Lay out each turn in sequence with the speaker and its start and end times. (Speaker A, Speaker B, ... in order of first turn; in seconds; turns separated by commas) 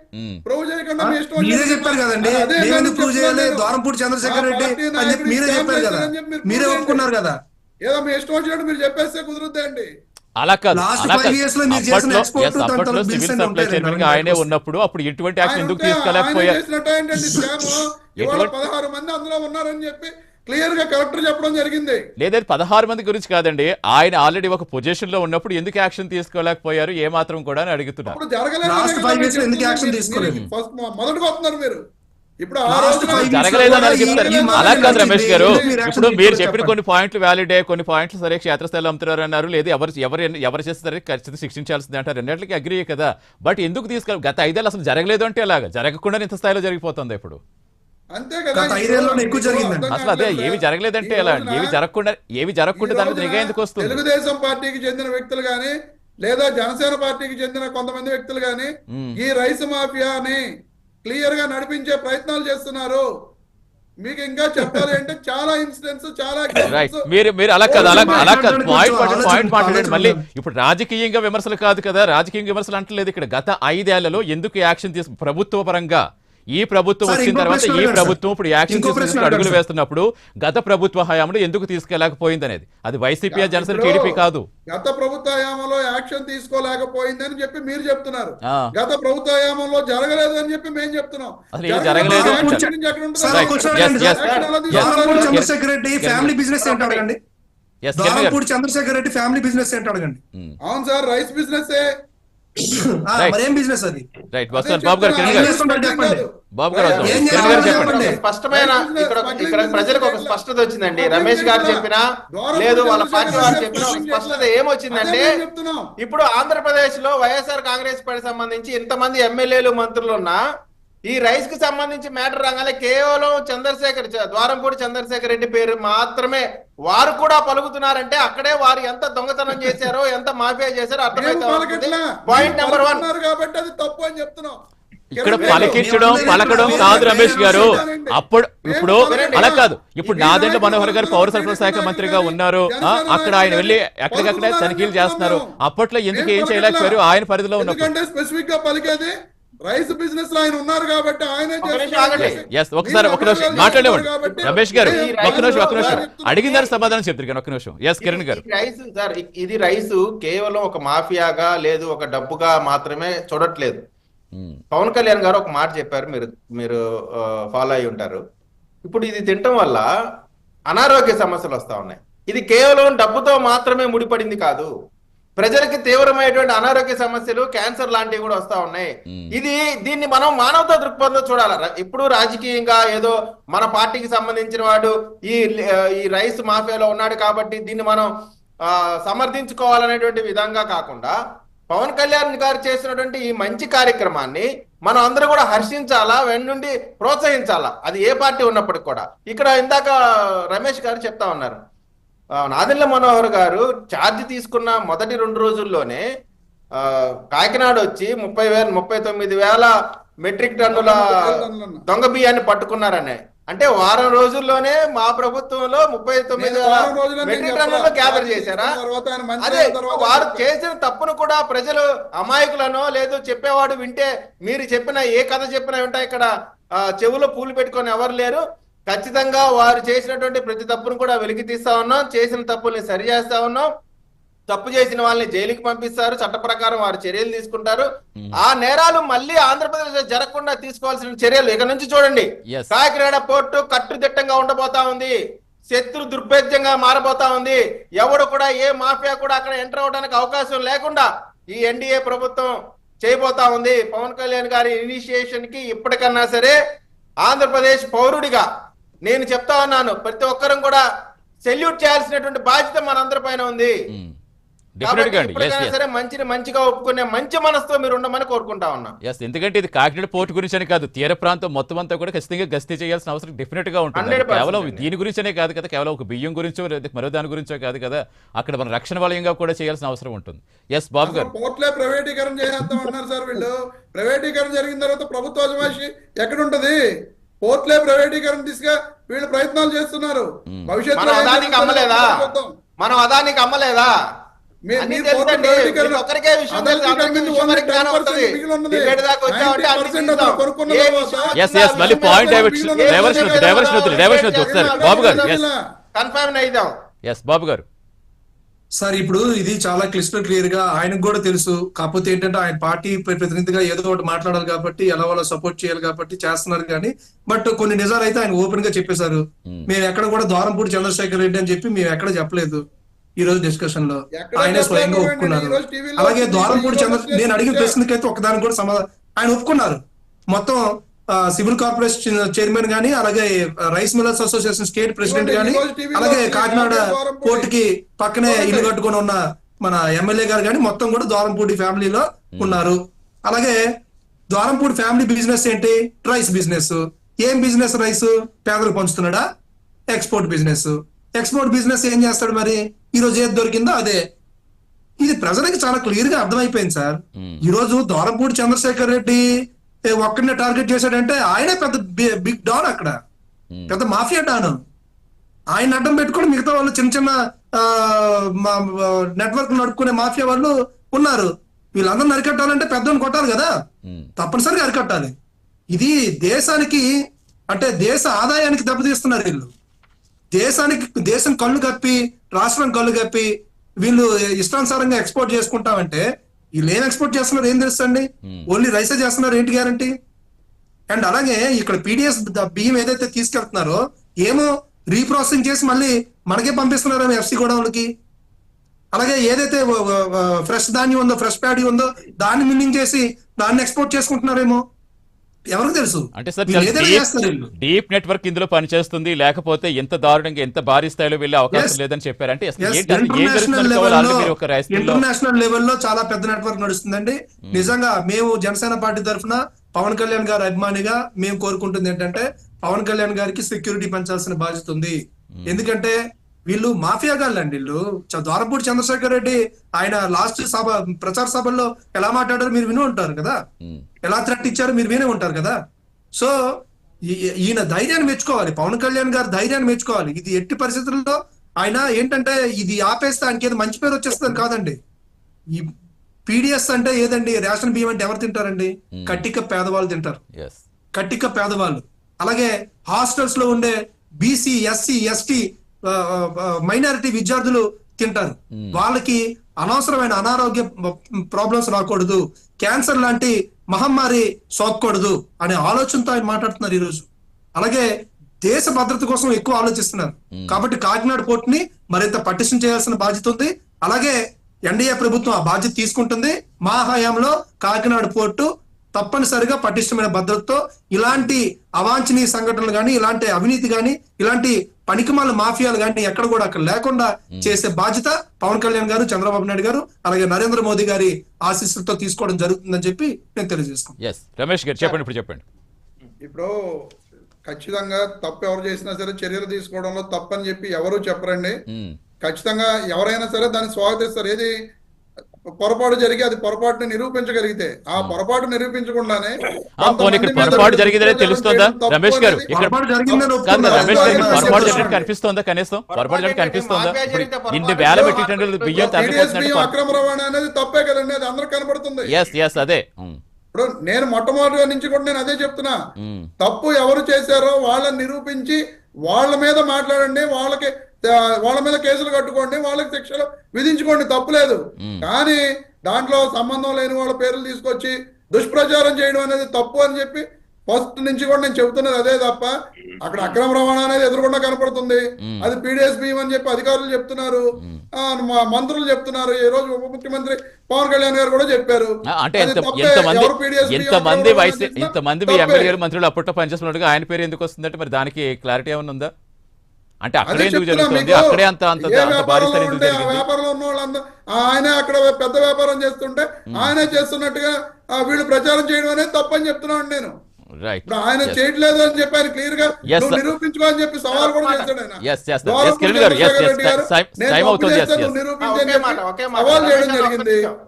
Speaker A: 0.1-0.4, Speaker B: 0.5-3.7, Speaker C: 1.0-7.3, Speaker B: 4.2-7.0, Speaker B: 7.8-9.9, Speaker A: 10.4-16.6, Speaker C: 10.7-14.5, Speaker B: 15.4-22.0, Speaker C: 17.2-17.8, Speaker A: 18.2-18.5, Speaker A: 22.2-28.2, Speaker B: 28.1-31.8, Speaker C: 28.6-30.4, Speaker B: 32.4-35.7, Speaker C: 32.7-36.7, Speaker A: 33.1-47.4, Speaker B: 48.1-51.8, Speaker C: 48.6-49.9, Speaker A: 49.9-54.0, Speaker B: 52.8-55.7, Speaker B: 56.2-60.4, Speaker A: 58.9-59.1, Speaker B: 61.0-63.0, Speaker B: 64.0-67.0, Speaker A: 66.7-76.0, Speaker B: 67.7-68.3, Speaker C: 67.8-70.2, Speaker A: 76.5-84.5, Speaker C: 77.0-78.2, Speaker C: 78.7-79.6, Speaker B: 83.3-84.2, Speaker B: 84.7-95.4, Speaker A: 91.5-92.7, Speaker C: 92.0-94.2, Speaker A: 93.2-96.3, Speaker D: 93.7-95.3, Speaker C: 94.7-97.2, Speaker D: 96.6-97.1, Speaker A: 97.8-98.4, Speaker C: 98.0-100.2, Speaker B: 100.7-101.8, Speaker C: 102.7-104.1, Speaker A: 104.3-105.5, Speaker B: 104.5-110.4, Speaker C: 105.2-106.2, Speaker A: 106.5-108.0, Speaker D: 106.9-112.0, Speaker C: 107.0-108.2, Speaker B: 111.0-115.8, Speaker D: 112.5-115.2, Speaker C: 113.3-113.8, Speaker D: 116.0-120.4, Speaker D: 121.1-133.1, Speaker B: 131.1-134.6, Speaker A: 135.2-147.9, Speaker B: 135.2-145.5, Speaker D: 135.4-136.4, Speaker C: 135.7-137.8, Speaker D: 139.1-139.5, Speaker B: 146.1-147.0, Speaker B: 147.6-149.2, Speaker B: 149.7-156.8, Speaker D: 151.6-152.4, Speaker A: 152.2-158.4, Speaker D: 154.2-156.0, Speaker D: 158.0-163.8, Speaker A: 164.3-164.6, Speaker D: 164.7-168.2, Speaker D: 168.8-169.9, Speaker D: 170.7-174.7, Speaker D: 175.4-188.1, Speaker D: 188.7-191.2, Speaker D: 191.7-199.9, Speaker D: 200.5-201.6, Speaker D: 202.4-206.0, Speaker D: 206.8-209.7, Speaker D: 210.2-218.8, Speaker B: 210.7-211.8, Speaker B: 216.3-220.5, Speaker D: 219.4-226.3, Speaker D: 226.8-233.7, Speaker D: 234.5-237.9, Speaker D: 238.4-245.2, Speaker D: 245.7-256.6, Speaker D: 257.2-258.5, Speaker D: 259.1-260.8, Speaker D: 261.4-263.7, Speaker A: 263.9-264.2, Speaker A: 264.8-265.7, Speaker D: 264.8-268.9, Speaker A: 269.0-281.3, Speaker D: 273.9-274.9, Speaker B: 281.0-286.8, Speaker B: 287.4-292.5, Speaker A: 290.5-290.8, Speaker D: 290.9-292.1, Speaker D: 292.8-293.9, Speaker B: 294.7-305.6, Speaker D: 294.8-305.4, Speaker A: 301.3-305.4, Speaker D: 305.9-306.7, Speaker A: 307.1-307.6, Speaker C: 308.8-322.6, Speaker C: 323.2-329.8, Speaker B: 324.2-327.8, Speaker C: 330.3-330.7, Speaker C: 331.2-343.6, Speaker B: 335.0-337.5, Speaker B: 338.3-338.7, Speaker A: 342.4-342.6, Speaker C: 344.3-349.2, Speaker C: 349.9-354.0, Speaker C: 355.0-359.2, Speaker A: 357.2-357.4, Speaker C: 360.0-362.9, Speaker C: 363.7-364.6, Speaker C: 365.6-373.5, Speaker A: 373.9-374.1, Speaker C: 374.2-375.1, Speaker C: 375.7-376.9, Speaker C: 377.5-379.5, Speaker C: 380.4-383.3, Speaker C: 383.8-386.0, Speaker C: 386.6-389.9, Speaker A: 388.2-388.5, Speaker C: 390.9-397.9, Speaker C: 398.9-404.6, Speaker C: 405.6-407.5, Speaker A: 406.1-415.0, Speaker C: 411.5-411.8, Speaker C: 412.6-426.0, Speaker A: 417.5-417.7, Speaker A: 425.4-425.7, Speaker C: 426.5-433.4, Speaker C: 434.1-435.6, Speaker C: 437.1-444.8, Speaker C: 446.3-450.2, Speaker A: 448.9-449.2, Speaker A: 450.4-450.6, Speaker C: 451.0-467.1, Speaker A: 458.5-458.8, Speaker C: 467.6-467.9, Speaker C: 468.5-474.2, Speaker A: 470.3-470.6, Speaker C: 474.7-494.0, Speaker A: 487.3-487.6, Speaker A: 494.0-495.4, Speaker B: 496.2-496.5, Speaker B: 497.5-501.6, Speaker A: 501.7-502.0, Speaker B: 502.2-504.5, Speaker B: 505.6-512.5, Speaker A: 509.8-512.7, Speaker C: 512.5-515.0, Speaker B: 513.1-515.1, Speaker A: 513.5-519.7, Speaker D: 514.0-514.4, Speaker D: 515.9-519.4, Speaker B: 517.9-518.2, Speaker B: 518.7-522.1, Speaker A: 522.1-523.2, Speaker B: 523.5-525.8, Speaker A: 526.0-526.3, Speaker B: 526.4-542.5, Speaker B: 543.0-547.4, Speaker B: 548.0-555.8, Speaker A: 552.1-559.1, Speaker A: 560.0-563.2, Speaker B: 560.3-570.1, Speaker A: 570.6-571.4, Speaker B: 570.9-580.5, Speaker A: 572.9-573.2, Speaker D: 574.1-574.7, Speaker A: 575.0-578.2, Speaker D: 578.4-580.5